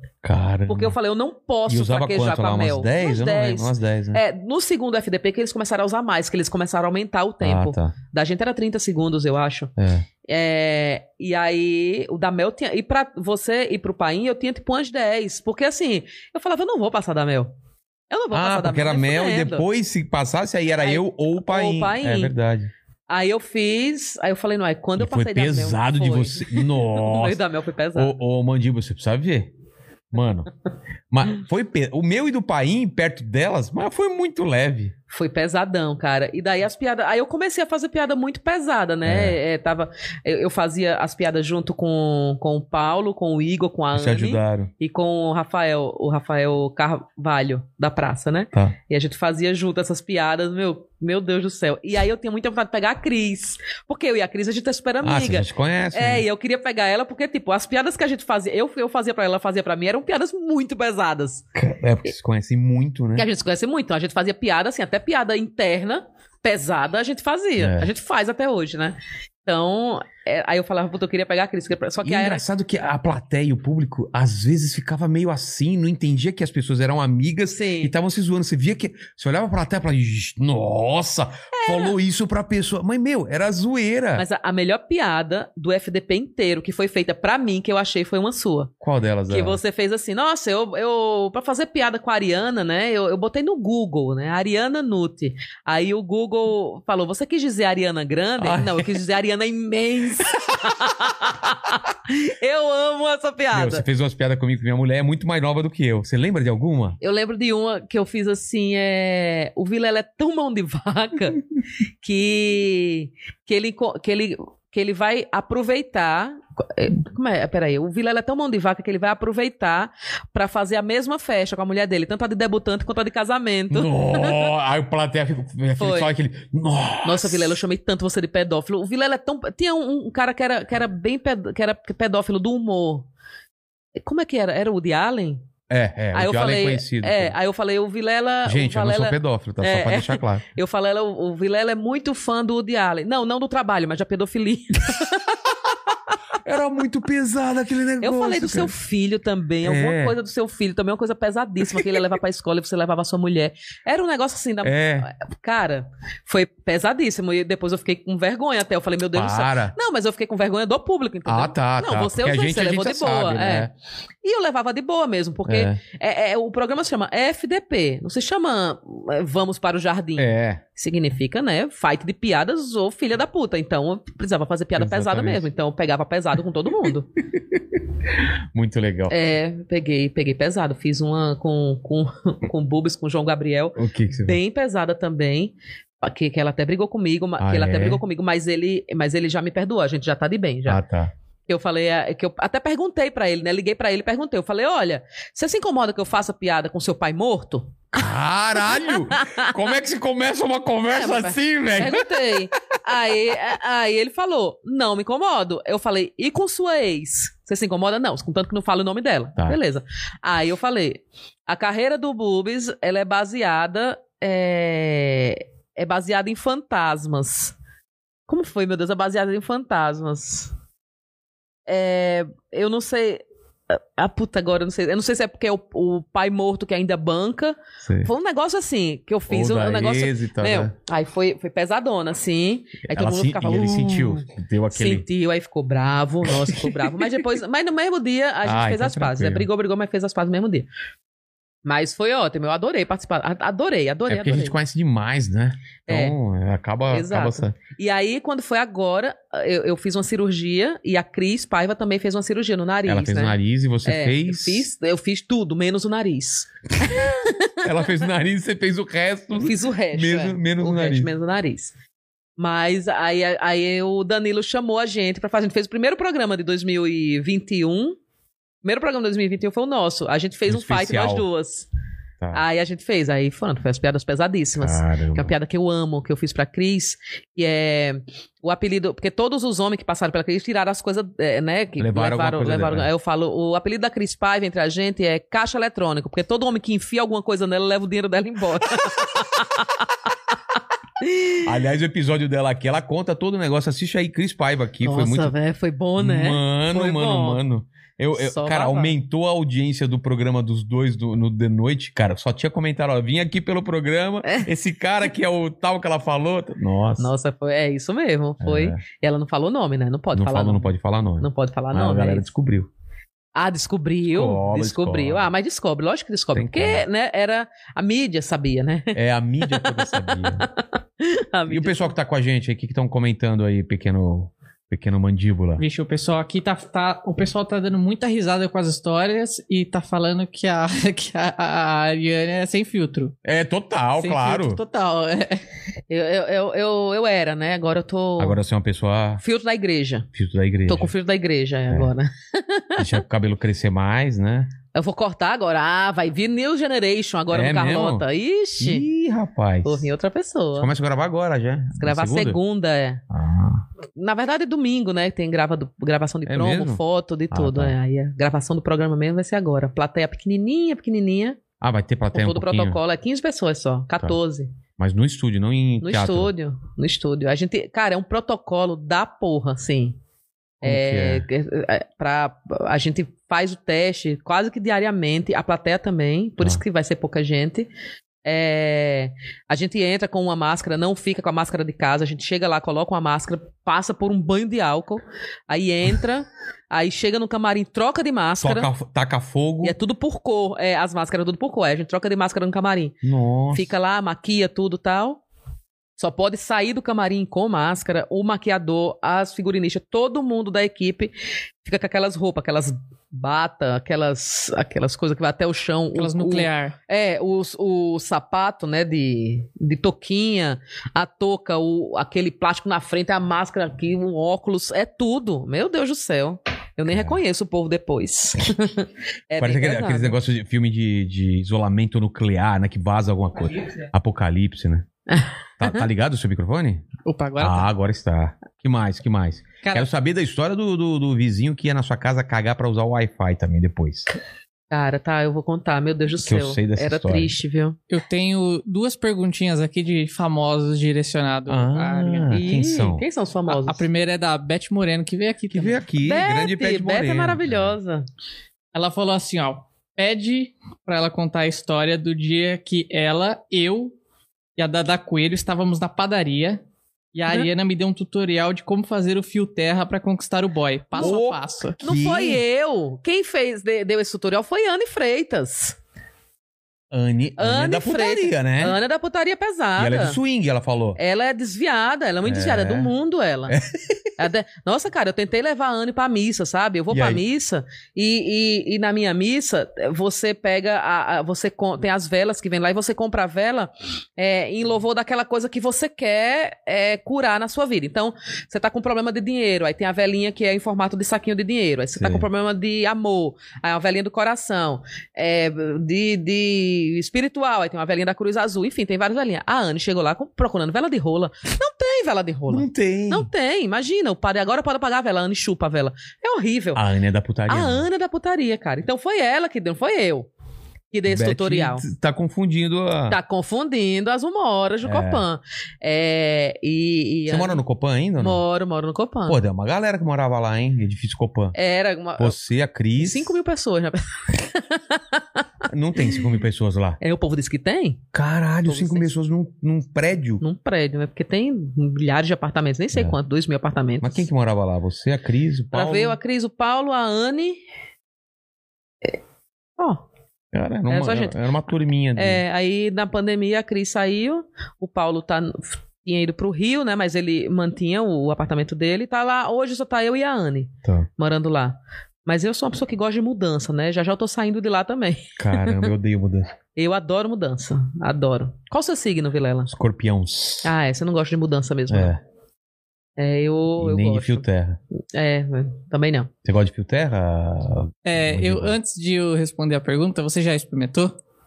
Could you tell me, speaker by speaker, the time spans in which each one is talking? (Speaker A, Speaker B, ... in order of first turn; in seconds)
Speaker A: 0.2-0.9, 1.6-4.2, 7.4-7.9, 9.8-10.1, 18.3-22.7, 25.0-27.4, 27.9-29.5, 30.1-30.5, 31.1-34.9, 39.0-39.4, 43.9-44.7, 55.0-56.2, 61.5-63.3, 67.6-67.9, 72.0-84.2, 88.8-89.6, 98.4-98.9, 103.5-107.0, 123.7-127.5, 135.7-137.3, 138.4-140.4, 146.4-148.7, 149.6-150.2, 154.6-155.1, 159.1-159.7, 161.2-163.7, 165.5-165.8, 170.2-170.6, 174.8-175.5, 178.5-179.2, 183.8-184.4, 187.4-188.0, 190.7-191.1, 197.9-202.4, 227.8-228.1, 229.3-230.7, 232.8-235.0, 236.3-236.8, 238.4-239.5, 244.1-247.6, 252.8-254.6, 257.6-261.1, 270.5-271.2, 274.6-275.3, 281.8-282.9, 291.4-295.3, 296.0-307.1, 308.4-308.8, 310.1-312.7, 314.0-315.3, 316.3-316.8, 318.9-320.5, 321.5-325.6, 333.2-334.6, 338.2-339.2, 340.1-340.9, 342.8-344.5, 347.3-348.0, 348.6-349.9, 350.6-352.4, 353.1-353.6, 356.2-357.8, 361.6-362.8, 364.8-366.3, 370.6-371.2, 388.4-389.8, 393.0-393.7, 416.9-417.2, 419.4-424.9, 425.6-426.8, 427.4-434.1, 436.2-437.4, 441.5-443.0, 445.5-447.7, 461.0-462.4, 466.9-468.8, 469.8-471.0, 472.2-472.9, 473.5-474.0, 476.9-477.2, 491.9-492.2, 502.5-503.3, 506.7-507.9, 511.1-513.2, 514.8-515.2, 517.3-518.4, 519.3-521.5, 522.2-523.4, 525.6-527.0, 528.1-530.4, 534.0-536.2, 540.5-542.4, 555.4-556.5, 559.7-560.7, 561.9-562.2, 563.8-564.8, 566.4-568.7
Speaker B: 0.7-9.7, 10.3-17.5, 18.1-19.6, 20.8-22.3, 23.1-28.1, 35.1-61.4, 63.1-72.4, 77.5-77.9, 81.5-82.0, 84.1-88.7, 89.3-103.8, 107.0-111.4, 112.0-124.5, 125.8-126.1, 127.0-133.1, 134.0-135.4, 136.1-145.7, 148.0-163.7, 164.2-177.1, 179.1-190.8, 191.5-198.1, 198.6-199.5, 200.9-217.5, 218.3-220.5, 221.7-240.7, 241.6-244.5, 245.9-246.2, 246.9-257.6, 259.4-261.7, 262.4-268.0, 268.6-271.7, 272.3-289.9, 291.0-291.4, 294.8-297.4, 298.1-298.9, 307.0-310.6, 311.2-312.3, 313.4-321.9, 335.9-338.4, 339.2-340.1, 340.7-343.0, 344.7-348.9, 349.6-350.7, 351.8-353.0, 353.9-361.4, 362.1-364.5, 365.8-370.0, 370.6-377.7, 378.2-388.7, 389.6-393.0, 393.5-395.2, 396.0-420.1, 425.1-425.8, 434.7-437.8, 442.3-443.8, 446.0-448.1, 461.8-465.8, 467.4-470.2, 471.0-473.5, 474.2-506.8, 507.5-510.3, 510.9-511.9, 513.1-517.6, 518.2-519.4, 521.5-522.3, 523.0-525.4, 527.0-528.0, 528.6-529.1, 530.4-534.2, 535.7-537.6, 539.8-540.0, 540.9-541.4, 542.1-555.9, 556.7-559.7, 560.6-562.1, 563.2-564.4, 565.1-566.3
Speaker C: 325.6-333.1, 334.0-335.4, 405.9-406.8, 427.1-427.7, 429.6-429.9, 437.9-442.4, 443.5-445.8, 448.7-453.9, 454.6-456.6, 457.1-461.8, 568.0-571.1